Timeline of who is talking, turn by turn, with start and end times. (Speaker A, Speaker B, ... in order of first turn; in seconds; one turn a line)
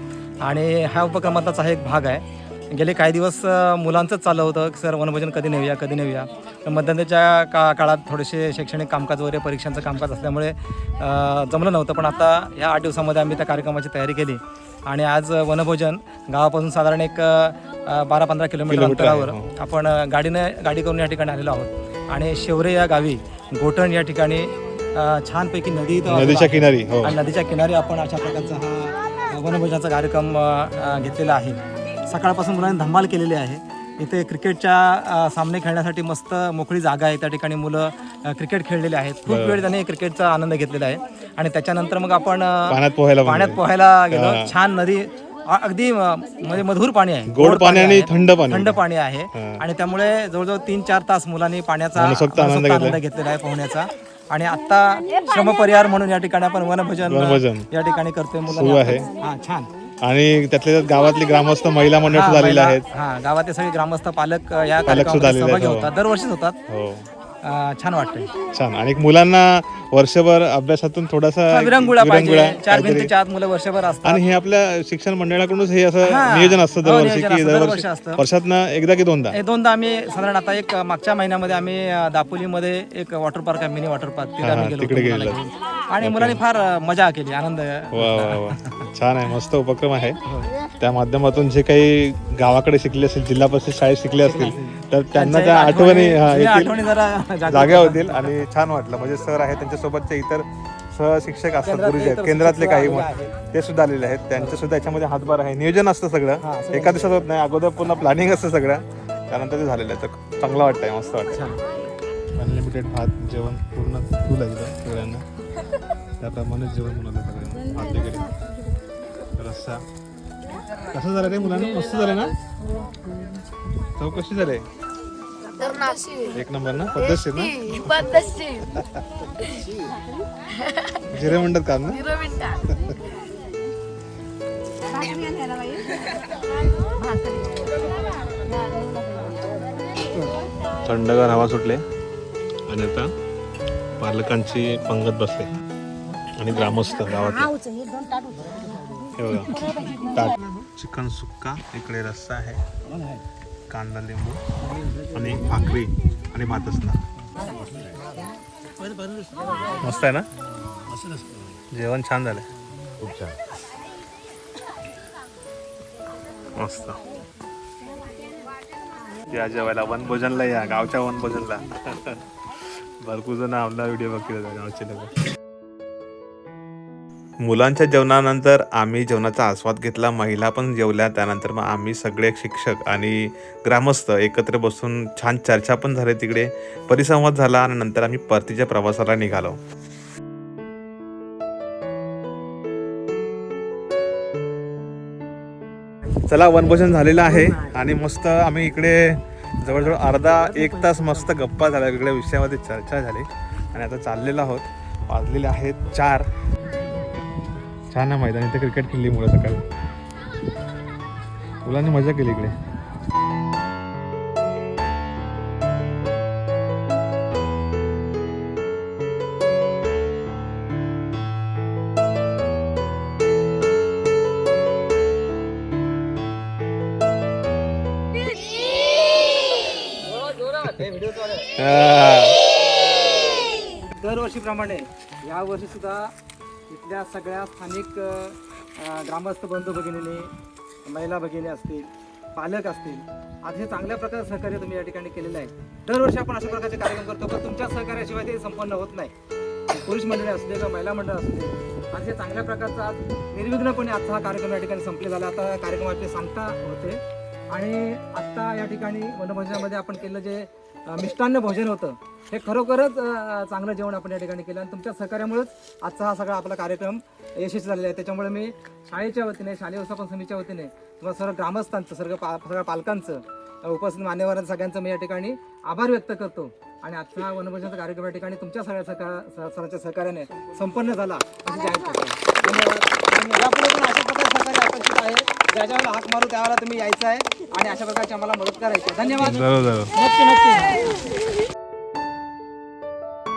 Speaker A: 0.4-59.7
Speaker B: 18.7-19.5
Speaker B: 26.1-27.2
Speaker B: 39.3-39.6
Speaker B: 42.7-43.6
Speaker B: 44.1-44.5
Speaker B: 47.3-48.8
Speaker B: 49.3-49.6
Speaker B: 52.0-53.0
Speaker B: 57.1-57.6
Speaker B: 58.5-59.1
Speaker B: 60.0-62.8
Speaker A: 62.1-66.6
Speaker B: 64.9-65.9
Speaker B: 66.7-67.1
Speaker A: 67.4-68.3
Speaker B: 68.5-73.1
Speaker A: 71.5-74.2
Speaker B: 74.0-79.4
Speaker A: 76.0-78.2
Speaker A: 79.3-88.7
Speaker B: 84.4-85.4
Speaker B: 86.0-86.4
Speaker B: 87.9-90.2
Speaker B: 90.8-96.8
Speaker A: 94.2-98.3
Speaker B: 97.5-111.4
Speaker A: 101.7-103.3
Speaker A: 106.4-107.2
Speaker A: 111.3-111.6
Speaker B: 112.3-115.2
Speaker B: 116.2-118.3
Speaker B: 119.4-119.8
Speaker B: 120.9-122.3
Speaker B: 124.0-124.6
Speaker C: 125.6-126.3
Speaker B: 126.3-127.8
Speaker C: 127.6-128.7
Speaker B: 131.0-132.1
Speaker C: 132.1-132.6
Speaker C: 134.9-135.9
Speaker C: 138.8-139.3
Speaker B: 140.8-141.8
Speaker B: 142.7-143.1
Speaker B: 144.0-145.5
Speaker B: 146.4-147.6
Speaker B: 149.2-152.6
Speaker B: 153.7-154.4
Speaker B: 155.1-157.0
Speaker B: 159.8-160.3
Speaker B: 161.7-162.5
Speaker B: 163.0-163.3
Speaker B: 166.6-167.0
Speaker B: 169.3-172.2
Speaker B: 173.0-175.2
Speaker B: 177.4-189.6
Speaker B: 196.3-206.3
Speaker A: 200.3-200.9
Speaker B: 207.9-209.7
Speaker B: 211.6-212.5
Speaker A: 230.4-231.4
Speaker B: 231.6-232.4
Speaker A: 233.9-236.1
Speaker A: 236.7-240.3
Speaker A: 240.8-249.1
Speaker A: 249.7-257.0
Speaker A: 257.5-290.8
Speaker B: 289.2-289.9